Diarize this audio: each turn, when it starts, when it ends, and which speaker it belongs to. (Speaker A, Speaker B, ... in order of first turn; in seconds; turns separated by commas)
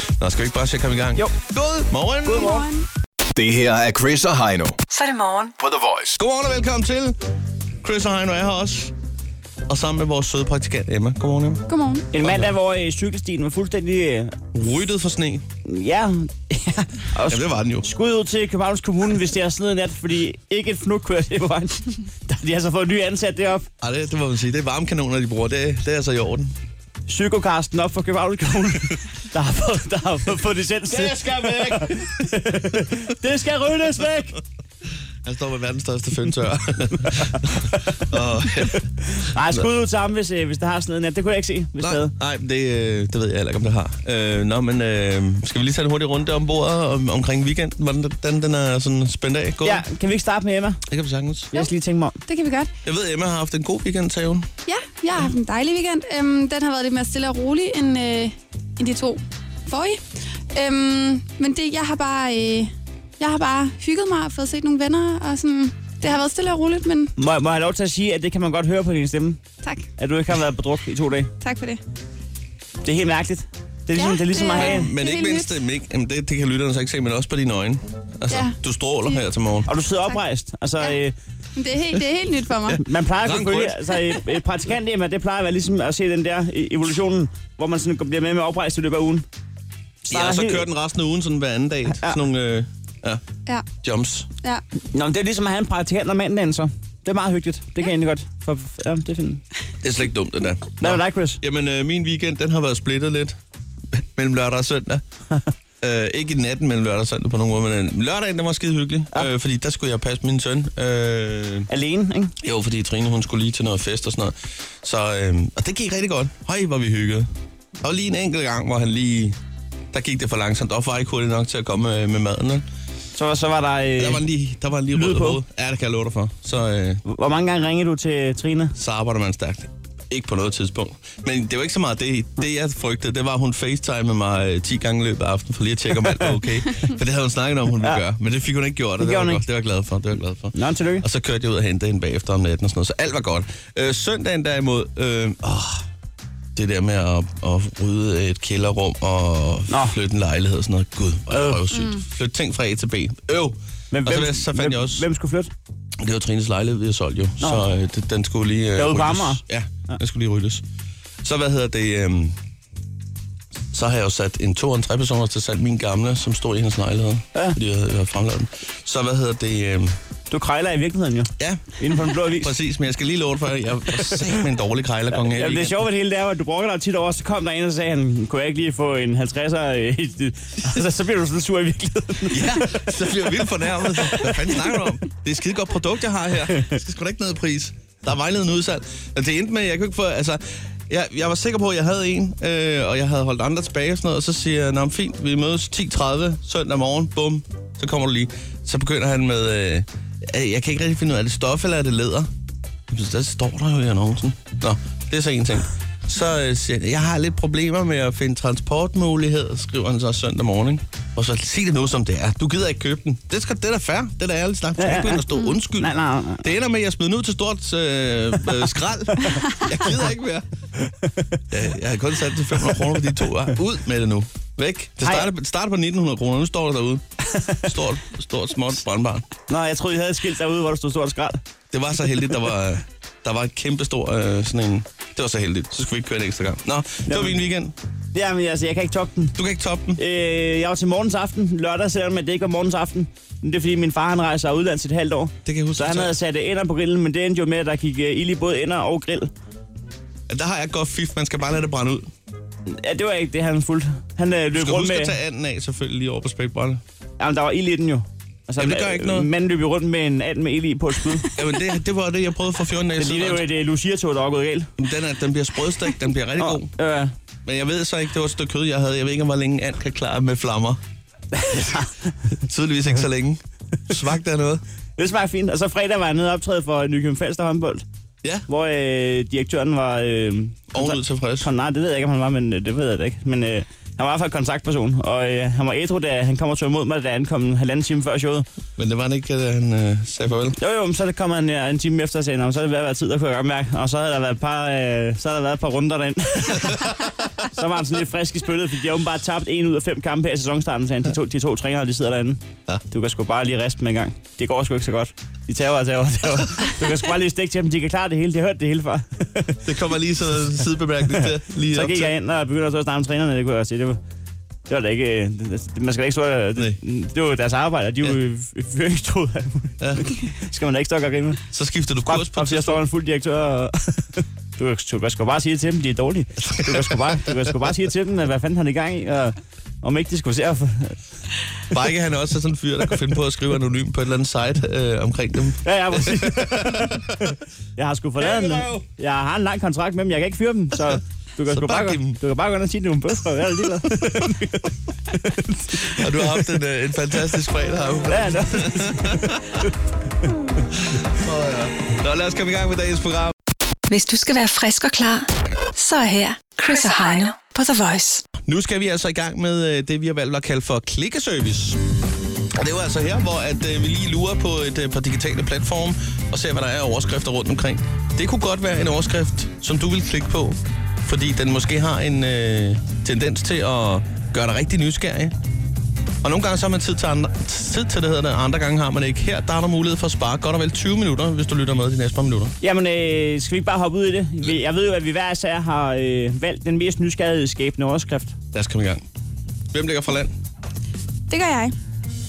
Speaker A: 0.2-2.6, Speaker B: 2.3-2.9, Speaker C: 2.3-2.6, Speaker D: 3.4-4.8, Speaker E: 4.9-5.5, Speaker D: 5.6-6.2, Speaker A: 6.2-7.2, Speaker A: 7.8-8.9, Speaker A: 9.7-11.7, Speaker B: 11.7-12.1, Speaker C: 12.1-14.4, Speaker A: 12.2-12.5, Speaker A: 14.5-15.4, Speaker C: 15.7-23.7, Speaker A: 17.3-17.9, Speaker A: 23.8-26.5, Speaker C: 27.1-34.4, Speaker A: 30.9-32.3, Speaker A: 35.2-39.7, Speaker C: 37.8-38.0, Speaker C: 39.1-42.1, Speaker A: 41.8-49.8, Speaker C: 49.6-50.8, Speaker A: 50.9-51.5, Speaker C: 51.5-52.2, Speaker B: 52.3-52.7, Speaker A: 52.9-54.5, Speaker B: 54.7-60.0, Speaker B: 60.5-67.1, Speaker C: 67.2-69.4, Speaker C: 70.0-71.3, Speaker B: 71.4-71.8, Speaker C: 72.8-74.9, Speaker B: 74.0-75.5, Speaker A: 74.6-79.7, Speaker B: 78.3-78.6, Speaker C: 79.7-81.1, Speaker B: 81.6-82.8, Speaker A: 82.7-83.9, Speaker C: 82.8-89.3, Speaker C: 90.0-90.7, Speaker A: 90.1-93.2, Speaker C: 91.9-92.2, Speaker A: 93.8-94.3, Speaker C: 94.9-99.4, Speaker A: 99.8-103.4, Speaker C: 100.8-101.4, Speaker A: 103.9-105.0, Speaker A: 105.8-111.7, Speaker C: 111.7-112.3, Speaker A: 112.4-117.3, Speaker A: 117.8-119.4, Speaker A: 119.9-122.7, Speaker C: 123.1-124.2, Speaker A: 124.0-127.0, Speaker C: 124.9-125.4, Speaker C: 127.1-128.8, Speaker A: 128.8-145.8, Speaker C: 139.0-139.4, Speaker C: 140.6-141.1, Speaker A: 146.6-155.0, Speaker C: 149.7-150.0, Speaker C: 151.3-151.6, Speaker C: 153.9-155.5, Speaker A: 156.0-160.6, Speaker C: 158.8-160.0, Speaker A: 161.2-162.4, Speaker A: 163.7-170.0, Speaker C: 170.3-172.6, Speaker A: 171.4-175.8, Speaker C: 175.2-182.7, Speaker A: 182.3-202.3, Speaker C: 184.1-184.3, Speaker A: 202.9-220.5, Speaker C: 214.8-215.2, Speaker C: 215.8-216.5, Speaker A: 221.5-227.1, Speaker C: 225.0-225.3, Speaker C: 227.3-227.7, Speaker A: 227.6-229.3, Speaker C: 229.5-231.4, Speaker A: 231.7-237.7, Speaker C: 237.1-237.4, Speaker C: 238.1-239.4, Speaker A: 239.4-240.0, Speaker C: 240.0-249.3, Speaker A: 245.4-246.2, Speaker A: 250.3-252.1, Speaker C: 252.7-255.2, Speaker A: 254.5-256.8, Speaker C: 257.2-261.3, Speaker A: 258.6-259.3, Speaker A: 261.4-263.5, Speaker C: 263.0-264.7, Speaker A: 264.8-266.7, Speaker C: 266.4-267.1, Speaker A: 267.4-270.8, Speaker C: 271.3-272.1, Speaker A: 272.5-274.6, Speaker C: 275.0-277.8, Speaker C: 278.5-288.4, Speaker A: 280.7-281.5, Speaker A: 288.8-290.6, Speaker C: 290.6-296.9, Speaker C: 297.4-309.6, Speaker A: 309.6-312.1, Speaker C: 311.1-314.0, Speaker C: 314.7-321.4, Speaker A: 319.8-320.1, Speaker A: 321.5-322.8, Speaker C: 322.1-331.0, Speaker A: 326.5-327.1, Speaker A: 331.7-337.1, Speaker C: 335.6-346.4, Speaker A: 338.2-338.8, Speaker A: 340.9-342.2, Speaker A: 345.9-349.6, Speaker C: 348.1-349.7, Speaker A: 350.7-353.3, Speaker E: 353.9-358.3, Speaker A: 358.4-361.8, Speaker A: 362.5-375.4, Speaker A: 376.2-382.6, Speaker C: 382.6-388.4, Speaker A: 388.5-389.0, Speaker A: 389.7-390.3, Speaker B: 391.3-391.7